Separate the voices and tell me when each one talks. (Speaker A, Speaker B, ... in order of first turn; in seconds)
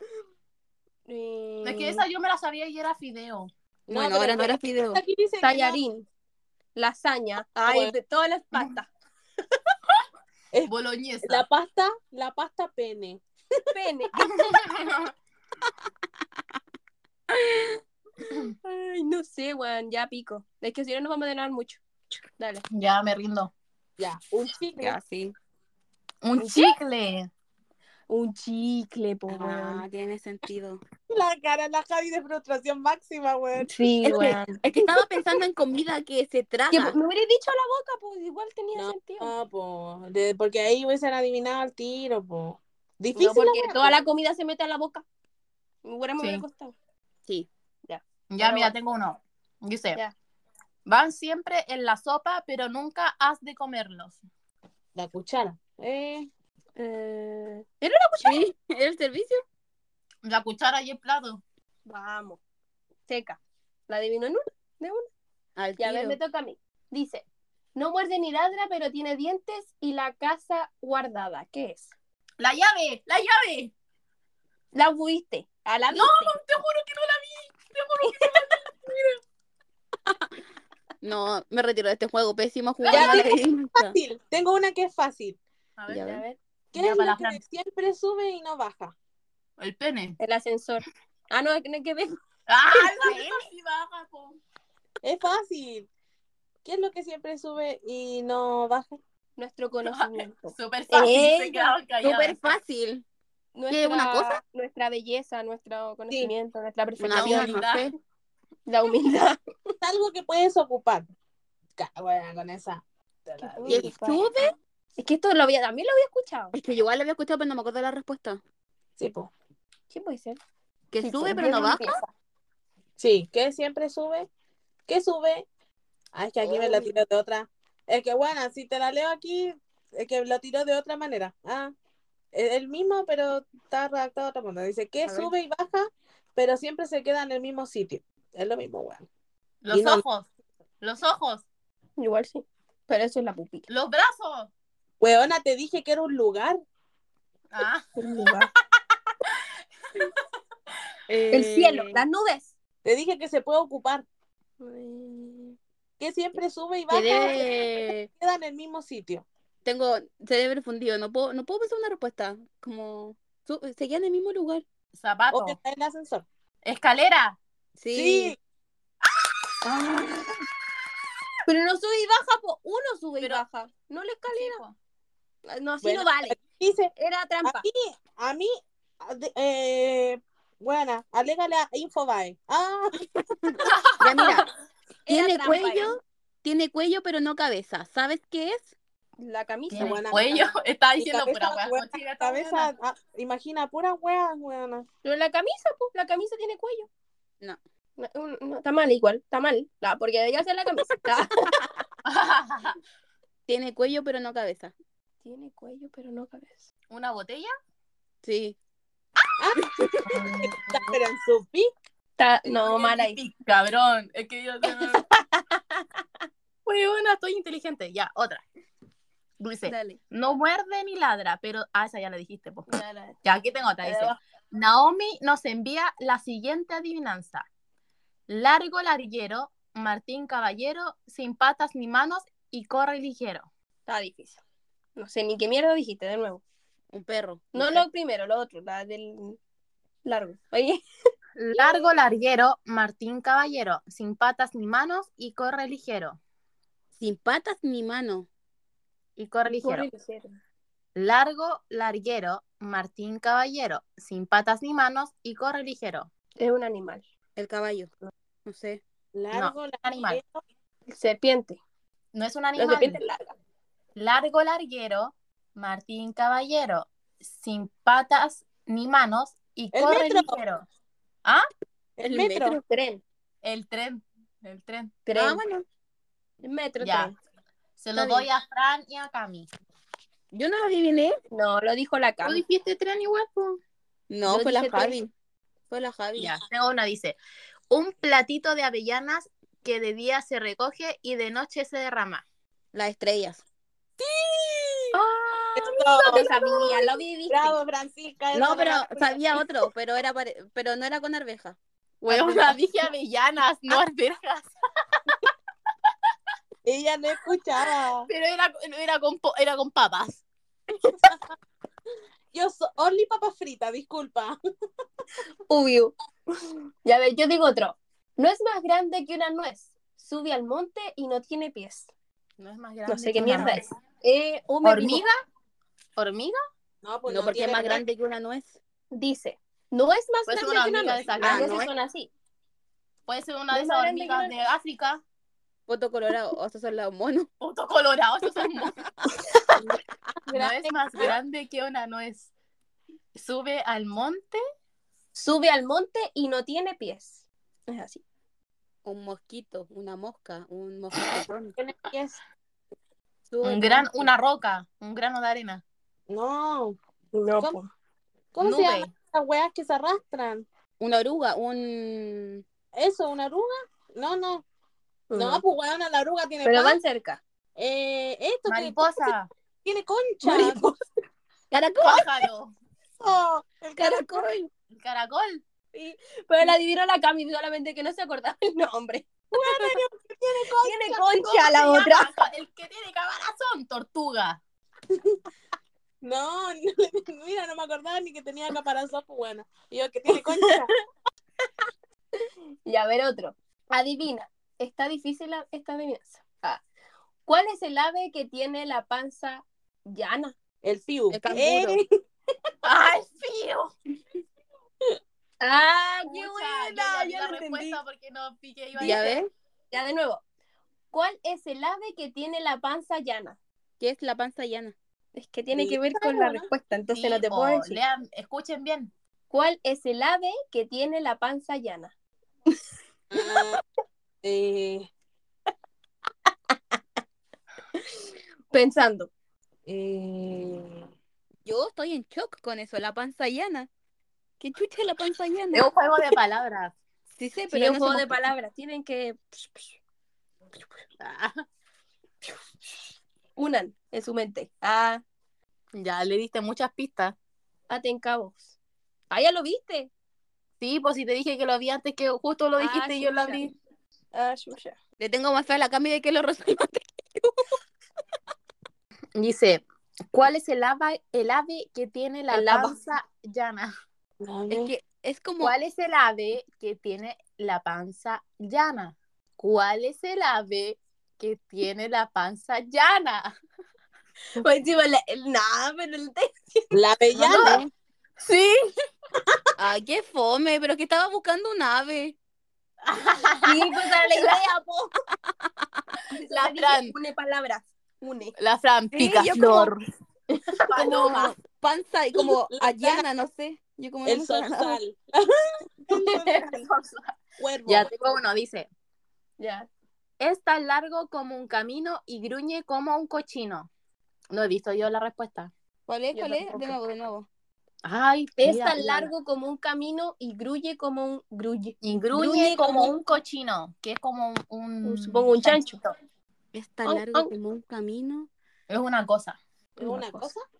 Speaker A: 1.1-2.0, 5.4-6.1, 6.7-8.9, 13.7-14.3, 18.6-21.8, 22.4-22.6, 26.4-26.8, 28.1-29.8, 33.7-34.6, 36.7-39.3, 43.1-45.0, 45.8-46.7, 47.9-48.7, 56.8-58.4, 61.9-62.4, 63.1-65.1, 65.8-71.9, 74.7-76.4, 78.0-78.4, 82.9-83.3, 90.2-92.2, 93.0-93.3, 99.4-101.7, 103.5-107.6, 108.7-109.7, 113.4-114.2, 115.0-116.5, 119.9-120.4, 121.0-122.1, 142.0-143.7, 148.0-148.5, 151.3-152.5, 154.6-155.6, 171.4-174.6, 175.4-176.4, 176.9-177.7, 185.1-186.0, 189.2-190.0, 195.0-196.9, 198.0-201.5, 205.2-206.6, 212.2-213.2, 219.6-220.0, 222.7-223.2, 223.8-224.2, 233.9-234.4, 234.9-236.4, 237.5-239.4, 240.0-240.8, 241.5-241.9, 249.4-250.3, 256.4-257.0, 260.9-261.6, 262.6-263.3, 272.1-273.0, 275.1-275.4, 276.4-277.2, 277.9-278.3, 281.3-282.4, 284.2-285.0, 294.9-297.6, 302.1-302.6, 315.5-315.9, 316.8-321.9, 322.9-325.0, 328.9-332.1, 333.5-334.3, 345.1-348.0, 357.1-357.7, 365.1-365.4, 366.4-367.2, 370.3-370.6, 375.7-379.8, 380.6-382.1, 392.6-396.6, 397.2-400.3, 405.4-407.8, 408.8-409.1, 409.7-410.2, 410.9-413.4, 415.1-417.8, 419.3-421.9, 428.5-429.1, 437.5-439.8, 443.4-445.0, 447.7-448.5, 449.1-449.9, 452.6-453.5, 454.1-454.8, 462.3-462.8, 474.4-476.7, 483.4-484.9, 486.1-488.3, 490.7-491.1, 499.4-499.7, 506.1-506.8, 508.4-512.9, 514.8-515.9, 516.8-517.3, 519.8-520.2
Speaker B: 1.6-3.5, 10.7-11.4, 14.2-15.1, 22.7-23.5, 26.2-27.3, 34.0-34.4, 46.2-46.4, 48.3-50.0, 50.9-54.2, 60.2-61.4, 72.4-73.7, 75.9-79.2, 82.8-83.3, 85.8-87.4, 89.6-90.2, 92.5-94.4, 99.8-102.4, 107.1-107.9, 139.6-140.3, 140.8-141.4, 143.7-144.5, 147.5-148.4, 164.9-165.6, 166.6-167.4, 174.3-174.7, 183.7-184.3, 189.7-192.7, 202.0-202.8, 206.9-207.5, 210.1-210.6, 212.5-215.1, 216.7-218.4, 219.4-222.7, 223.2-227.4, 228.3-233.5, 241.4-246.2, 249.2-249.9, 250.9-256.1, 259.3-260.2, 262.1-263.0, 263.9-270.6, 273.4-275.0, 276.8-277.1, 277.8-279.5, 282.2-283.6, 286.1-287.2, 287.7-292.2, 296.1-296.9, 302.0-304.5, 308.1-310.2, 322.4-323.6, 324.6-325.1, 326.0-326.4, 330.3-331.6, 333.1-335.0, 337.4-338.8, 340.3-342.3, 343.1-344.4, 353.4-355.6, 358.4-358.9, 368.5-369.3, 371.8-372.5, 374.8-375.4, 381.1-384.4, 402.6-403.7, 406.1-409.1, 416.9-418.9, 435.5-436.7, 441.0-441.4, 445.7-447.1, 450.6-453.5, 459.1-463.7, 465.4-473.3, 477.2-477.6, 478.2-478.6, 482.8-484.3, 486.3-486.9, 488.4-489.8, 490.5-491.3, 496.0-497.1, 497.7-498.7, 500.2-503.7, 504.3-505.5, 507.8-509.1, 511.8-515.6, 518.7-519.4
Speaker C: 3.9-5.8, 7.6-7.9, 10.5-13.2, 24.0-25.0, 31.1-33.8, 38.7-44.0, 54.9-56.3, 83.7-85.4, 86.7-88.9, 95.0-95.9, 96.6-99.0, 109.8-111.1, 111.8-113.9, 119.0-119.3, 123.0-124.3, 124.9-125.5, 126.1-131.7, 132.3-139.1, 139.7-140.0, 145.0-146.6, 152.8-154.1, 156.0-157.5, 158.2-159.2, 165.3-166.2, 167.9-168.4, 175.8-176.9, 177.4-182.9, 189.7-194.9, 209.4-211.7, 259.1-260.4, 269.7-270.4, 272.0-272.6, 294.0-294.9, 295.6-296.2, 297.3-299.2, 306.6-308.1, 312.3-314.4, 326.8-327.8, 340.3-341.1, 351.6-352.2, 356.1-356.8, 358.3-360.4, 362.7-364.4, 365.1-366.8, 367.6-368.9, 369.6-370.6, 373.0-374.1, 379.3-381.0, 386.0-390.7, 400.6-401.9, 415.5-416.5, 423.1-423.6, 424.2-424.9, 429.7-430.8, 464.2-464.7, 476.7-477.6, 492.1-493.0, 494.0-495.3, 495.8-496.7, 497.4-497.9, 519.8-520.4
Speaker D: 3.9-5.0, 17.3-17.8, 24.8-25.3, 29.3-30.8, 34.0-37.0, 58.2-59.4, 65.6-66.2, 81.0-84.0, 85.9-86.2, 102.0-103.0, 103.7-104.4, 107.0-107.9, 113.7-114.5, 116.5-118.4, 120.9-122.0, 126.4-126.9, 135.0-135.3, 151.1-152.0, 156.9-158.1, 159.6-164.6, 167.8-168.3, 183.4-184.5, 185.1-188.7, 203.5-204.7, 208.2-208.6, 209.8-210.1, 236.9-237.8, 247.0-248.3, 257.4-257.9, 258.4-258.8, 275.1-275.6, 280.3-281.1, 284.1-285.1, 285.7-286.3, 292.7-293.4, 298.3-301.6, 327.1-328.6, 331.2-331.7, 335.7-337.3, 348.8-351.5, 353.3-354.1, 360.8-362.4, 371.5-372.2, 373.8-374.5, 401.1-401.8, 408.8-409.3, 413.8-414.7, 431.4-433.7, 434.4-435.7, 437.1-438.3, 455.0-457.5, 464.5-465.5, 477.3-477.7, 479.6-482.1, 488.9-489.7, 490.8-494.8, 505.9-507.3, 516.5-518.3